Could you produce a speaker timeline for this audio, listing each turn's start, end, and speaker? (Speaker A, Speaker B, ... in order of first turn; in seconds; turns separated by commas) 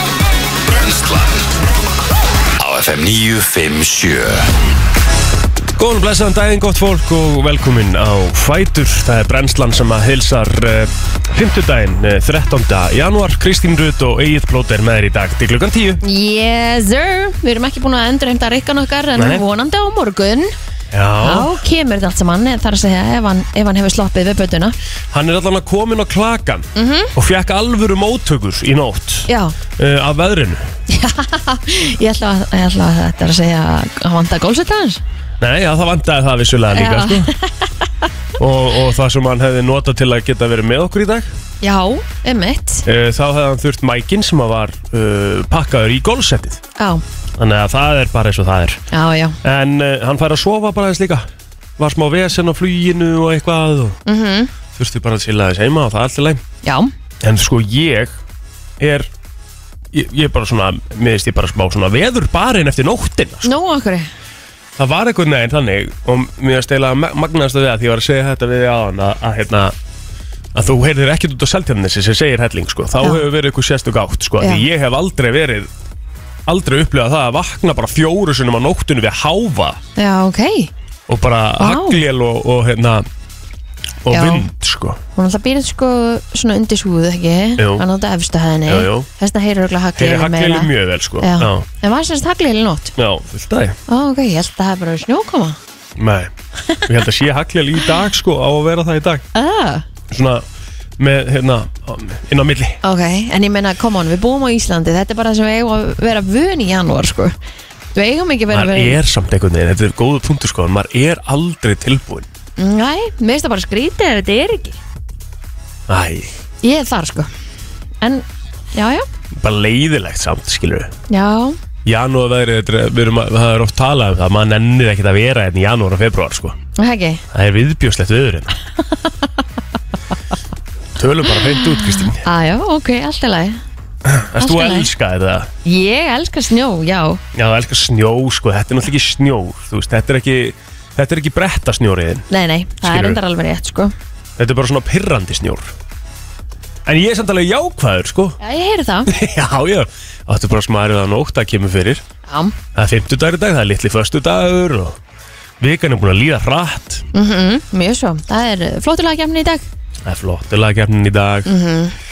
Speaker A: 0.7-1.5, Speaker A: 2.6-4.5, Speaker B: 5.8-16.0, Speaker C: 16.0-20.5, Speaker B: 19.2-19.4, Speaker B: 20.9-21.6, Speaker C: 21.2-24.8, Speaker B: 25.1-30.7, Speaker C: 26.8-27.1, Speaker C: 29.3-29.6, Speaker C: 30.9-35.0, Speaker B: 35.4-37.3, Speaker C: 36.7-37.7, Speaker B: 38.4-41.3, Speaker C: 41.6-42.9, Speaker B: 42.9-46.6, Speaker C: 46.8-47.0, Speaker B: 47.4-48.8, Speaker C: 48.9-49.4, Speaker B: 49.4-51.3, Speaker B: 51.8-54.0, Speaker C: 54.1-54.5, Speaker B: 54.8-56.4, Speaker C: 56.6-56.9, Speaker B: 57.2-58.2, Speaker B: 58.8-59.1, Speaker B: 59.9-63.5, Speaker C: 63.4-64.1, Speaker B: 64.8-69.8, Speaker B: 70.5-75.7, Speaker C: 74.4-74.7, Speaker B: 76.5-79.8, Speaker C: 80.0-80.7, Speaker B: 81.1-83.1, Speaker C: 81.6-82.0, Speaker B: 84.0-85.0, Speaker C: 84.1-84.5, Speaker C: 85.2-93.0, Speaker B: 87.6-87.8, Speaker B: 88.7-89.1, Speaker B: 90.0-91.7, Speaker B: 93.0-93.8, Speaker C: 93.9-95.6, Speaker B: 96.0-96.3, Speaker B: 96.8-99.2, Speaker C: 99.3-99.8, Speaker B: 100.1-100.5, Speaker B: 101.0-102.8, Speaker C: 102.8-107.3, Speaker C: 108.0-109.0, Speaker B: 108.5-112.3, Speaker C: 112.6-114.8, Speaker B: 115.9-116.3, Speaker C: 116.6-117.3, Speaker C: 118.0-119.0, Speaker B: 119.4-120.9, Speaker C: 121.1-121.6, Speaker B: 121.8-126.6, Speaker C: 126.8-127.2, Speaker B: 127.3-128.5, Speaker B: 131.0-132.2, Speaker C: 132.0-133.6, Speaker B: 134.1-135.5, Speaker C: 134.4-134.9, Speaker C: 135.7-137.2, Speaker B: 137.3-142.3, Speaker C: 142.3-143.9, Speaker B: 142.8-143.2, Speaker B: 144.4-145.7, Speaker B: 146.9-148.4, Speaker C: 148.4-149.1, Speaker B: 149.1-152.0, Speaker C: 152.3-152.6, Speaker B: 152.8-155.0, Speaker B: 155.6-157.1, Speaker C: 157.1-159.7, Speaker B: 160.0-161.5, Speaker C: 161.5-162.0